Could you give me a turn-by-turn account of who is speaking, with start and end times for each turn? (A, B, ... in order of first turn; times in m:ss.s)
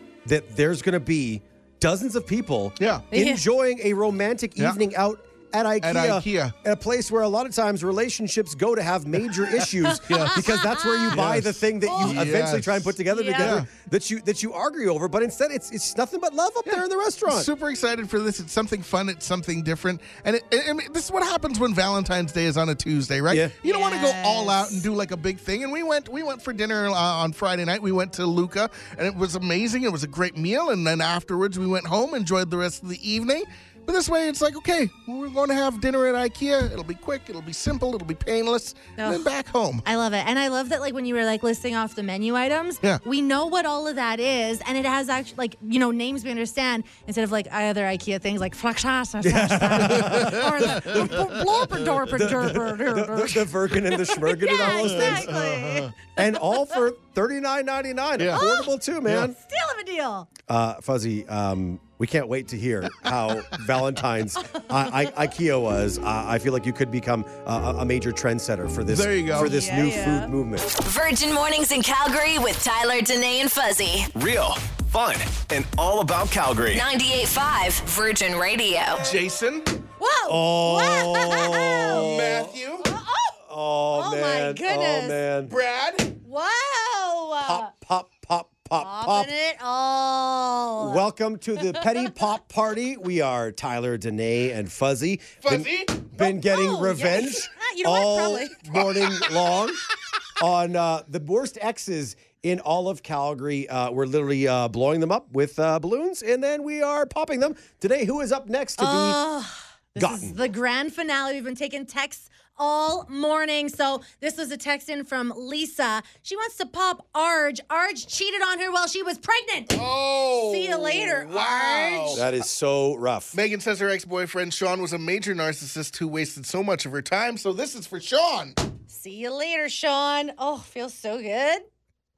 0:00.2-0:17.5 A
0:02.8-0:03.1 B
0:03.1-0:03.4 C
0:05.8-0:06.5 B
0:09.8-0:11.2 C
0:10.1-0:10.4 B
0:11.1-0:13.7 B
0:11.8-0:12.2 C
0:13.1-0:13.6 C
0:16.7-0:39.8 B
0:23.3-0:23.5 A
0:23.6-0:24.8 C
0:39.0-0:39.3 C
0:39.8-0:56.8 C
0:49.2-0:51.3 A
0:49.8-0:52.0 B
0:52.1-0:55.4 A
0:54.6-0:55.9 B
0:56.2-0:59.4 A
0:58.3-0:58.7 C
0:59.3-1:00.3 C
1:00.5-1:10.7 A
1:08.9-1:09.6 B
1:09.4-1:10.3 C
1:10.8-1:14.1 D
1:14.1-1:16.8 E
1:16.7-1:19.1 D
1:19.0-1:19.7 B
1:20.0-1:22.1 C
1:20.2-1:22.5 A
1:21.9-1:22.9 B
1:22.8-1:23.4 C
1:23.4-1:25.5 A
1:23.9-1:25.2 C
1:25.5-1:26.2 B
1:26.2-1:27.7 C
1:27.4-1:29.3 A
1:28.8-1:32.1 C
1:30.8-1:39.8 A
1:35.4-1:36.0 B
1:36.2-1:38.6 C
1:38.7-1:39.6 B
1:40.4-1:49.2 A
1:48.8-2:02.2 C
1:50.0-1:50.4 A
1:59.7-2:02.2 B
2:02.1-2:03.4 A
2:03.3-2:08.6 B
2:08.9-2:11.6 C